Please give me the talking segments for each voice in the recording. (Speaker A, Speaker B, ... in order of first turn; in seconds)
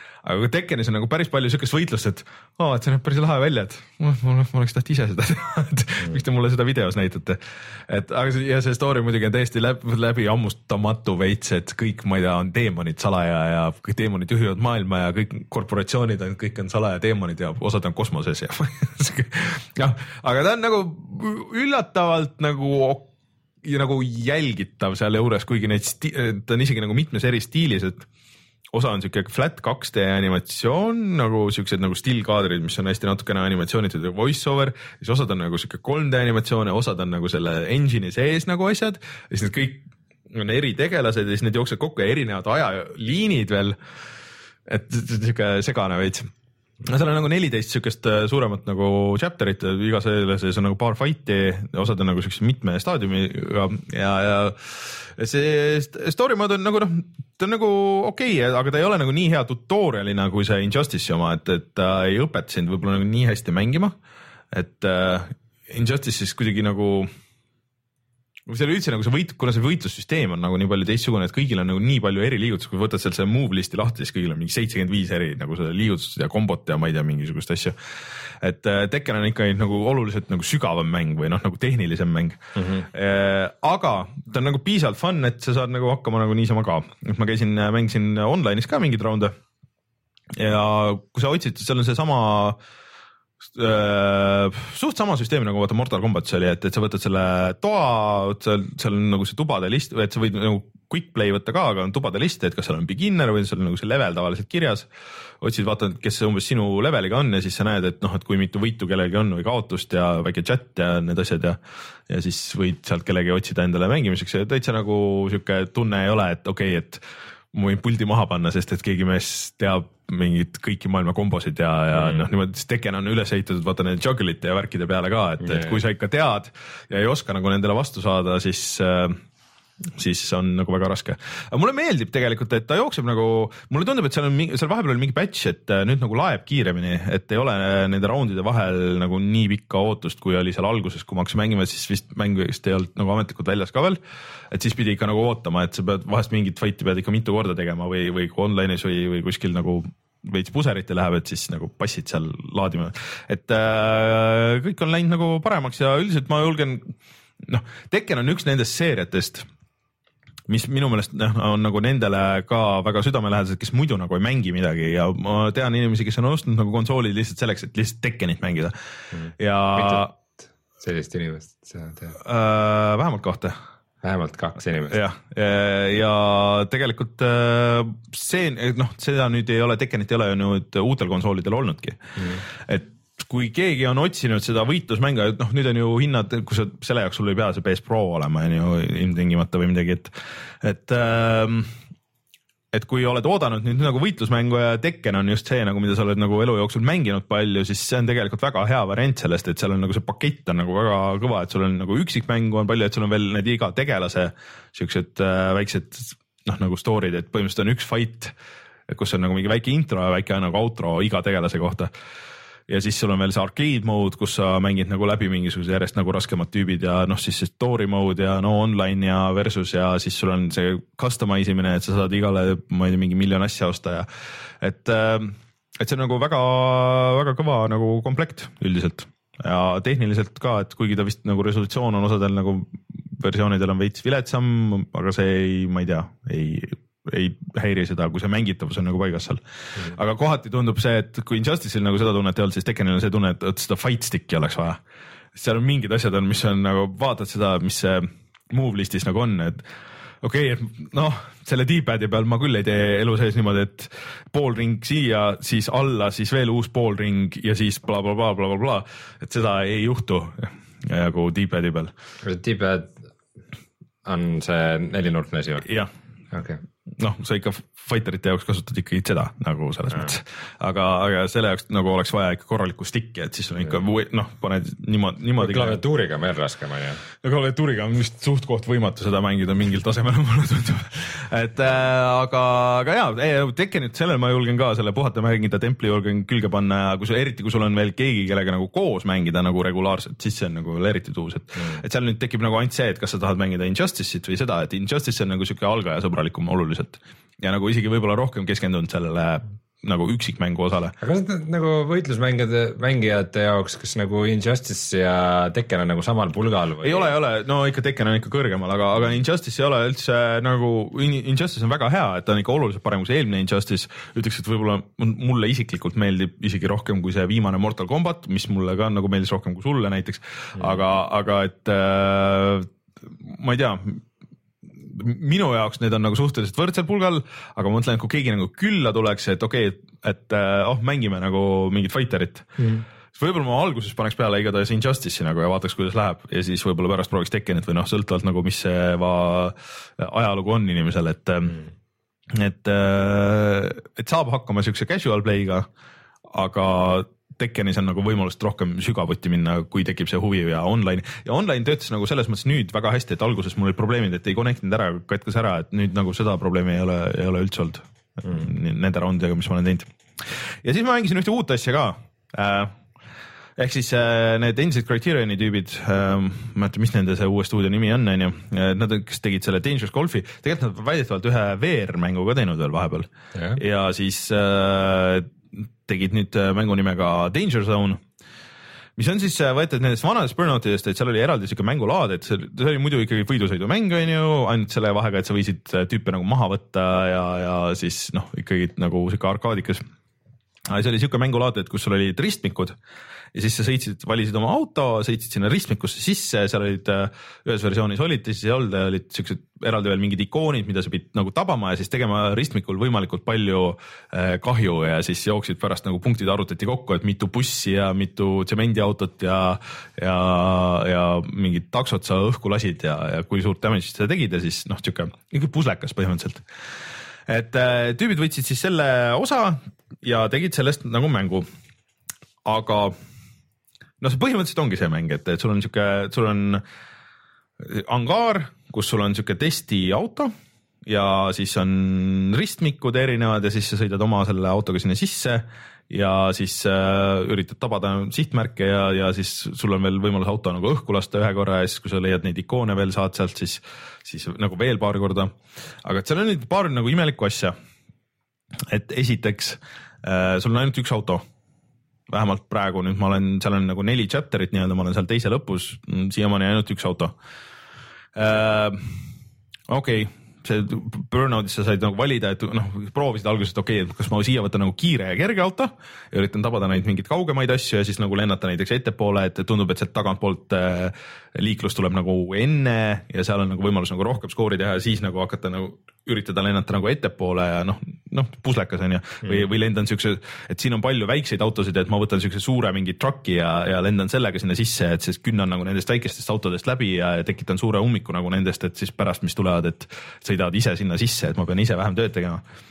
Speaker A: 0.2-23.1, 23.6-28.1, 28.7-43.8, 44.7-46.3, 46.9-64.0, 64.5-67.1, 68.5-77.8, 78.4-89.3, 90.3-92.6, 93.5-104.9, 105.4-111.6, 112.1-117.0, 117.5-129.2, 129.9-144.0, 144.5-159.5, 160.5-168.7, 169.4-170.1, 172.2-173.6, 174.9-182.0, 182.5-191.7, 192.7-208.3, 208.9-211.9, 212.7-224.1, 224.6-244.8, 245.3-249.7, 250.2-261.9, 265.6-265.9, 267.0-275.8, 277.2-300.9, 306.8-324.0, 324.8-332.6, 333.1-341.6, 342.3-345.7, 346.3-362.8, 363.6-375.3, 375.9-378.0, 379.0-389.8, 390.7-392.7, 393.3-416.4, 417.3-421.5, 422.4-422.9, 424.0-426.6, 427.6-430.3, 430.9-447.5, 448.7-451.2, 452.1-457.2, 458.1-458.9, 459.7-492.4
Speaker B: 82.5-82.9, 122.0-122.2, 125.4-125.8, 169.1-170.2, 170.8-172.1, 174.0-175.0, 262.2-263.0, 264.1-265.6, 266.3-266.6, 275.4-277.0, 301.0-307.1